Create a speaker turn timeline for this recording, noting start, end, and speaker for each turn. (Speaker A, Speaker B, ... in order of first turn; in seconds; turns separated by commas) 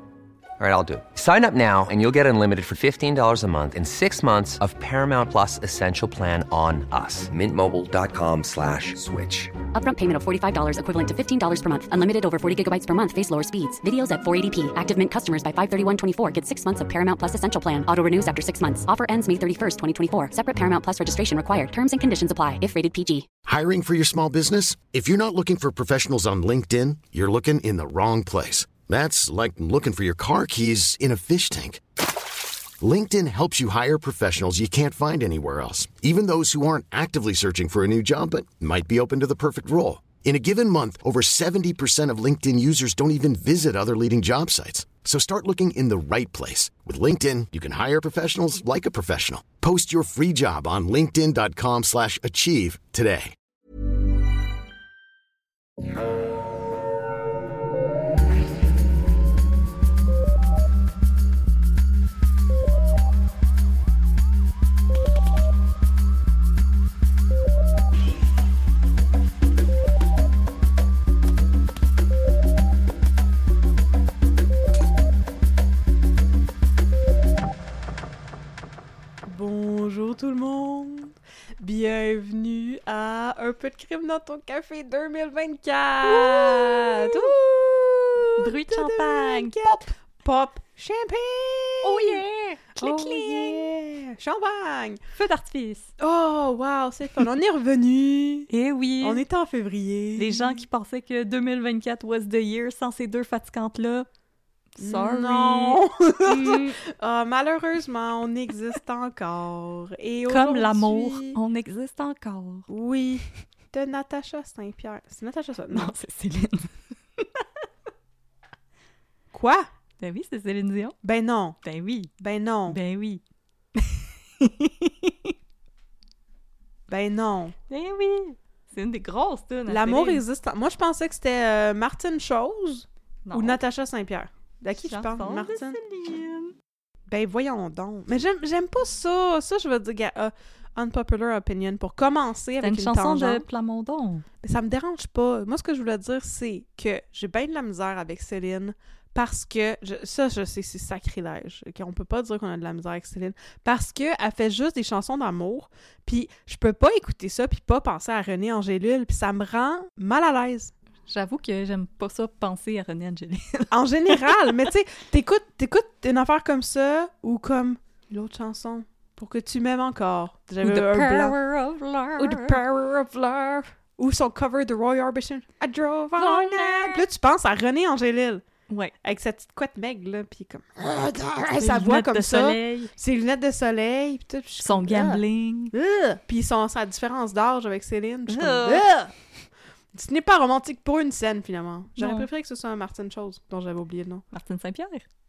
Speaker A: 0.6-9.5, Speaker B: 9.7-23.3, Speaker C: 23.4-31.8, Speaker C: 32.8-53.4, Speaker D: 79.3-92.2, Speaker E: 86.0-87.4, Speaker E: 88.4-89.8, Speaker E: 91.8-93.7, Speaker D: 92.8-95.0, Speaker E: 95.2-95.9, Speaker D: 96.0-98.5, Speaker E: 98.5-99.2, Speaker D: 99.0-100.6, Speaker E: 100.2-104.1, Speaker E: 104.8-106.8, Speaker D: 104.8-111.4, Speaker E: 110.3-112.7, Speaker D: 112.7-116.0, Speaker E: 115.7-117.5, Speaker D: 119.3-119.7, Speaker E: 120.0-121.0, Speaker D: 121.0-121.6, Speaker E: 121.6-122.1, Speaker D: 122.2-122.8, Speaker E: 122.7-123.2, Speaker E: 123.8-125.3, Speaker D: 126.9-127.5, Speaker E: 127.7-130.2, Speaker D: 129.7-135.8, Speaker E: 133.3-133.6, Speaker E: 134.8-136.6, Speaker D: 137.1-143.4, Speaker E: 142.6-144.2, Speaker D: 144.4-160.7, Speaker E: 161.1-164.7, Speaker D: 163.7-171.3, Speaker E: 170.6-172.6, Speaker D: 172.2-178.4, Speaker E: 176.2-177.1, Speaker D: 179.0-185.2, Speaker E: 181.6-182.9, Speaker E: 184.6-185.7, Speaker D: 185.7-189.1, Speaker E: 188.3-188.9, Speaker D: 189.9-194.2, Speaker E: 192.0-192.3, Speaker E: 194.3-195.1